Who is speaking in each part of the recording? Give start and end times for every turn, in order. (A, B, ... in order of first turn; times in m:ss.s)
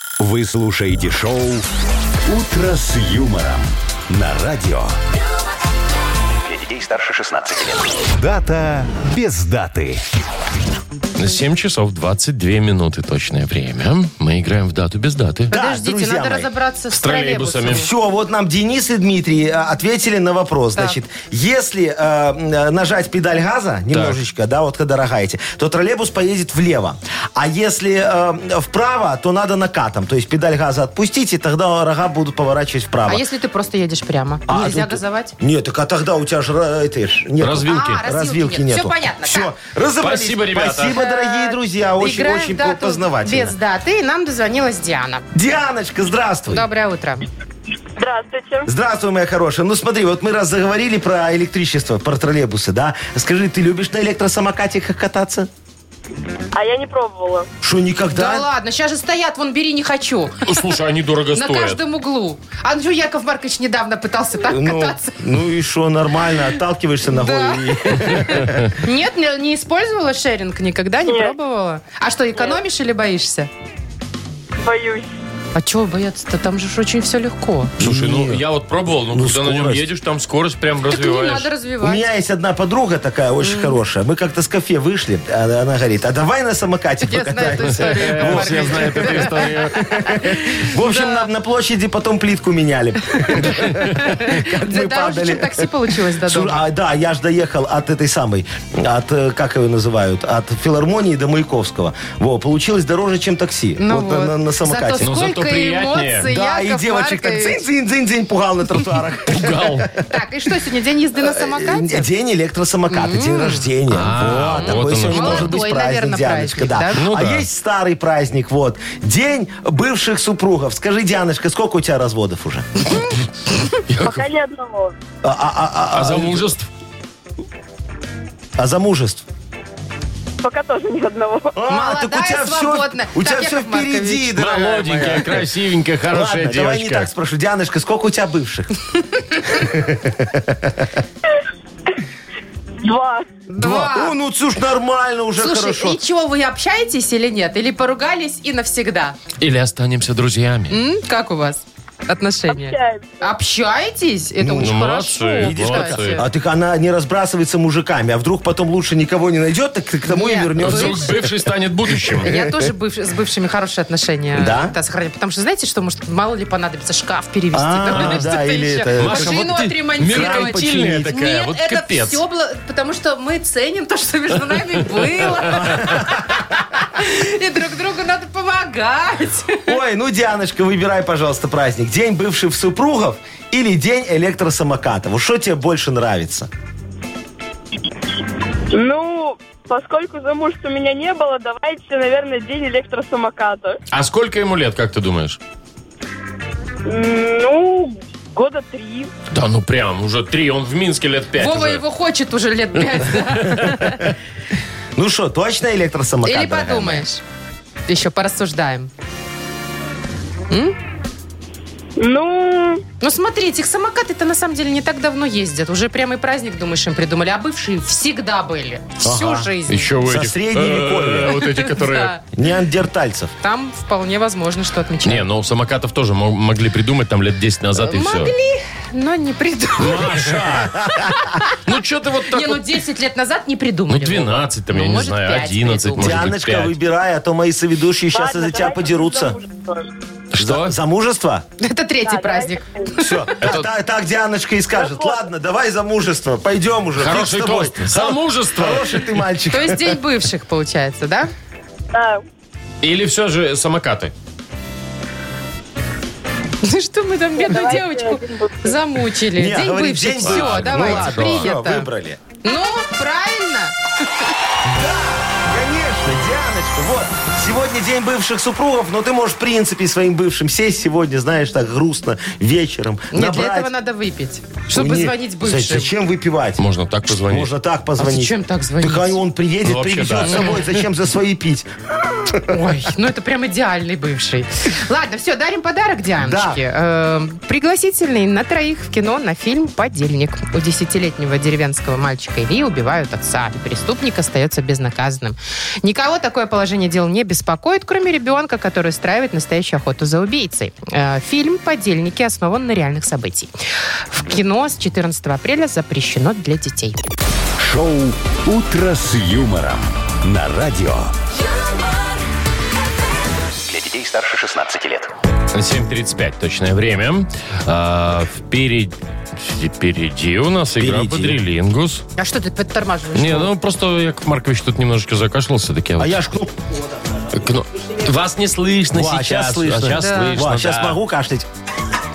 0:00.2-0:01.6 A
0:02.3-0:05.0 A
0:06.4-0:08.0 B
0:08.2-0:10.0 A
0:11.2-0:15.5 C
0:15.5-0:16.5 D
0:15.5-0:17.9 E
0:16.9-0:17.9 C
0:17.6-0:33.2 D
0:23.9-0:24.2 C
0:33.1-0:35.3 E
0:34.5-0:43.6 D
0:37.4-0:38.0 C
0:37.6-0:39.5 E
0:40.0-0:41.0 C
0:40.9-0:45.2 E
0:45.3-0:46.6 D
0:46.5-0:47.2 E
0:48.0-0:48.7 F
0:48.6-0:55.5 D
0:56.5-0:57.5 F
0:57.6-0:58.5 D
0:58.1-1:00.6 E
1:00.4-1:01.8 C
1:01.3-1:05.2 E
1:04.5-1:08.7 D
1:07.1-1:13.5 E
1:11.0-1:11.3 F
1:12.3-1:12.6 F
1:14.6-1:15.1 F
1:15.5-1:17.7 E
1:17.8-1:18.4 D
1:17.8-1:21.5 C
1:19.1-1:19.9 D
1:20.9-1:22.0 E
1:21.8-1:35.7 D
1:23.4-1:23.8 E
1:27.0-1:31.3 E
1:27.8-1:30.0 C
1:33.3-1:36.6 E
1:33.4-1:33.7 C
1:36.2-1:45.1 D
1:43.8-1:47.6 E
1:45.0-1:46.3 C
1:46.2-1:50.0 D
1:49.2-1:49.9 C
1:50.0-1:52.1 E
1:51.2-2:02.9 D
1:52.9-1:53.7 E
1:53.9-1:55.5 C
1:55.1-1:57.0 E
1:56.9-1:57.4 C
2:03.9-2:04.2 C
2:04.0-2:04.9 F
2:05.2-2:06.5 D
2:05.9-2:06.7 C
2:08.6-2:09.2 D
2:10.4-2:11.6 F
2:11.5-2:15.4 D
2:11.7-2:15.2 E
2:14.4-2:17.1 C
2:16.1-2:18.7 D
2:19.3-2:20.9 D
2:22.8-2:23.4 F
2:23.5-2:24.1 E
2:23.6-2:26.0 D
2:25.4-2:29.2 E
2:29.4-2:30.8 C
2:30.7-2:36.3 E
2:32.5-2:33.2 F
2:34.4-2:34.8 D
2:34.6-2:36.2 C
2:35.4-2:41.4 D
2:40.1-2:41.1 E
2:40.6-2:42.3 C
2:41.9-2:42.6 D
2:42.2-2:59.7 E
2:44.4-2:44.7 D
2:47.5-2:51.1 D
2:47.9-2:48.3 C
2:49.0-2:52.2 C
2:55.2-2:55.4 C
2:55.5-2:56.4 D
2:59.6-3:06.5 D
3:08.7-3:13.8 F
3:13.9-3:15.4 C
3:16.8-3:19.1 F
3:19.3-3:21.8 C
3:21.4-3:24.1 E
3:23.2-3:23.7 C
3:24.9-3:27.0 D
3:26.2-3:27.2 E
3:27.9-3:28.9 E
3:30.5-3:30.8 E
3:32.0-3:32.8 F
3:33.0-3:39.9 E
3:39.0-3:41.5 D
3:39.7-3:42.2 C
3:41.4-3:42.2 E
3:42.3-3:43.3 D
3:43.4-3:45.2 E
3:45.0-3:48.3 C
3:47.8-3:51.6 E
3:49.8-3:50.9 C
3:51.6-3:52.7 C
3:52.3-3:56.2 E
3:53.9-3:56.8 C
3:56.0-3:59.4 D
3:58.1-3:59.9 F
4:00.3-4:00.8 C
4:00.3-4:01.4 D
4:01.6-4:03.3 E
4:02.0-4:03.0 F
4:03.0-4:10.0 D
4:03.4-4:03.7 C
4:04.7-4:05.2 F
4:07.0-4:09.2 C
4:09.5-4:11.3 E
4:11.9-4:12.2 F
4:12.8-4:14.1 C
4:16.6-4:21.9 E
4:17.4-4:18.8 F
4:19.3-4:22.2 D
4:20.2-4:21.5 C
4:22.4-4:23.8 E
4:24.6-4:33.7 D
4:33.1-4:35.9 E
4:34.7-4:36.6 D
4:36.6-4:37.5 C
4:37.2-4:42.6 D
4:38.0-4:39.2 E
4:39.6-4:40.8 C
4:40.2-4:40.6 E
4:42.5-5:03.5 E
4:46.2-4:46.6 D
5:04.1-5:07.0 E
5:07.6-5:11.1 A
5:13.6-5:15.1 B
5:15.5-5:22.0 C
5:20.8-5:21.4 D
5:22.2-5:23.5 E
5:23.1-5:26.2 C
5:26.0-5:27.3 D
5:27.3-5:31.0 C
5:28.9-5:31.5 D
5:30.0-5:30.4 E